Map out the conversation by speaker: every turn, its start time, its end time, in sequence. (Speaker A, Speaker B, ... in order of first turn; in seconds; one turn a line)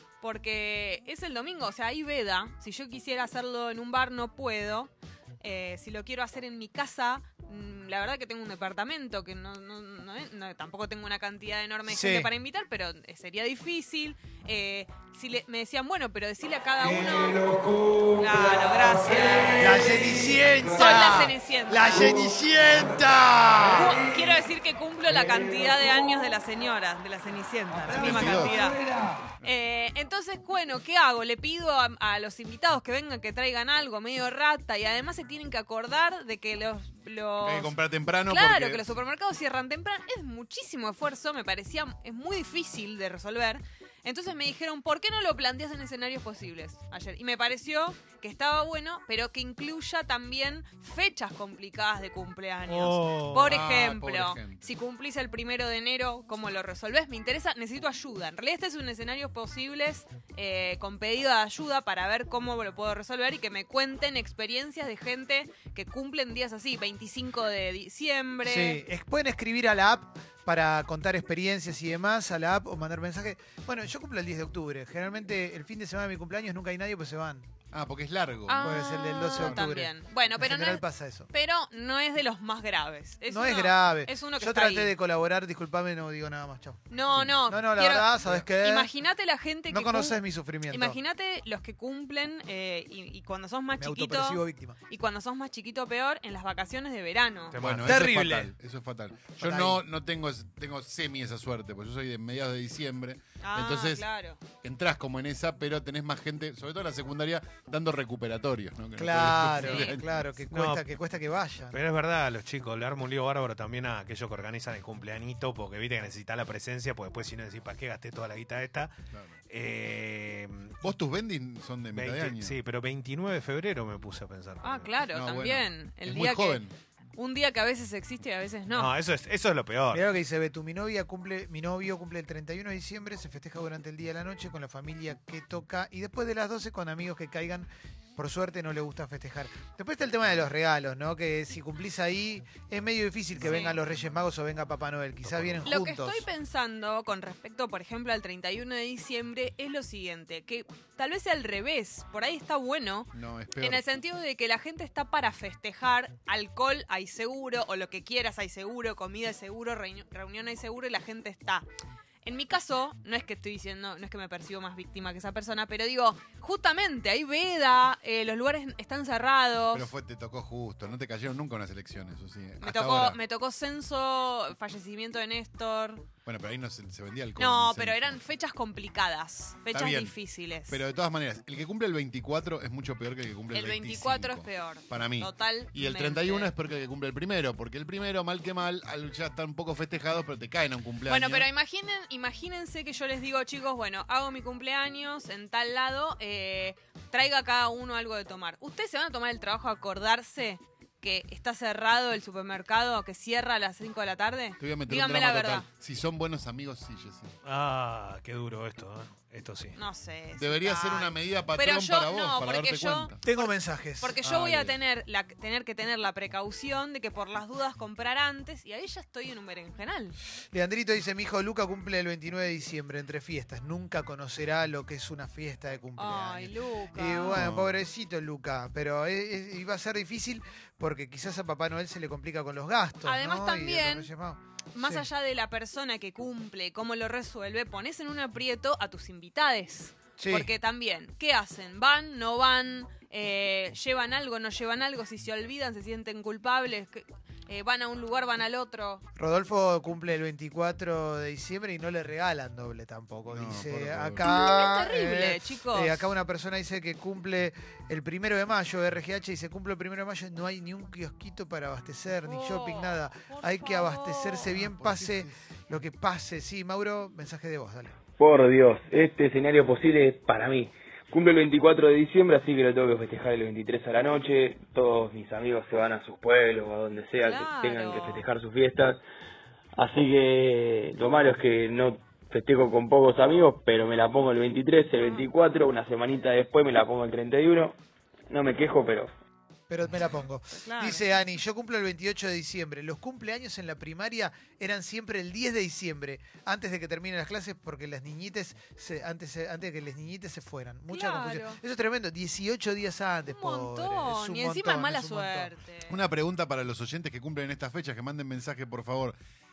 Speaker A: 0.2-19.8
Speaker B: 11.9-12.3
Speaker B: 19.5-24.0
Speaker A: 20.7-22.1
Speaker A: 23.7-28.8
Speaker C: 27.9-28.6
Speaker A: 29.4-68.8
Speaker C: 37.4-39.0
Speaker D: 52.7-53.5
Speaker C: 53.4-54.7
Speaker B: 68.4-77.5
Speaker C: 77.7-78.8
Speaker A: 78.5-85.0
Speaker B: 78.6-81.3
Speaker C: 79.3-79.7
Speaker B: 83.3-88.9
Speaker A: 86.9-97.6
Speaker C: 87.1-87.6
Speaker B: 89.7-91.0
Speaker B: 93.8-94.8
Speaker D: 97.5-98.0
Speaker C: 97.6-104.1
Speaker B: 97.8-98.5
Speaker B: 99.4-99.8
Speaker A: 103.4-104.4
Speaker C: 104.6-110.0
Speaker B: 109.0-111.8
Speaker A: 109.6-110.0
Speaker D: 110.5-110.8
Speaker D: 111.7-118.9
Speaker D: 119.5-120.8
Speaker C: 120.8-122.6
Speaker D: 121.9-125.0
Speaker A: 124.6-126.7
Speaker C: 125.1-126.7
Speaker A: 127.2-128.9
Speaker D: 128.7-130.0
Speaker B: 129.9-146.3
Speaker A: 143.4-143.8
Speaker D: 145.3-145.7
Speaker A: 145.6-161.7
Speaker C: 153.1-153.8
Speaker A: 162.2-169.9
Speaker C: 169.7-173.2
Speaker A: 172.6-176.1
Speaker C: 176.2-178.2
Speaker A: 177.4-180.8
Speaker C: 179.7-191.5
Speaker A: 183.5-186.5
Speaker A: 191.1-205.7
Speaker C: 204.6-207.3
Speaker D: 207.4-209.8
Speaker A: 209.8-220.2
Speaker C: 210.4-213.2
Speaker B: 213.2-214.2
Speaker C: 214.3-214.8
Speaker B: 220.5-235.1
Speaker A: 226.0-227.4
Speaker C: 227.3-227.8
Speaker A: 233.0-234.1
Speaker A: 234.7-249.0
Speaker B: 240.2-240.5
Speaker B: 249.2-268.0
Speaker C: 253.3-254.3
Speaker A: 254.2-256.1
Speaker A: 262.2-264.5
Speaker C: 264.5-265.4
Speaker E: 268.2-279.0
Speaker A: 277.2-278.2
Speaker E: 279.8-287.8
Speaker E: 288.3-289.1
Speaker B: 289.7-305.5
Speaker A: 290.6-291.1
Speaker A: 300.9-301.6
Speaker A: 303.3-306.0
Speaker C: 305.9-309.2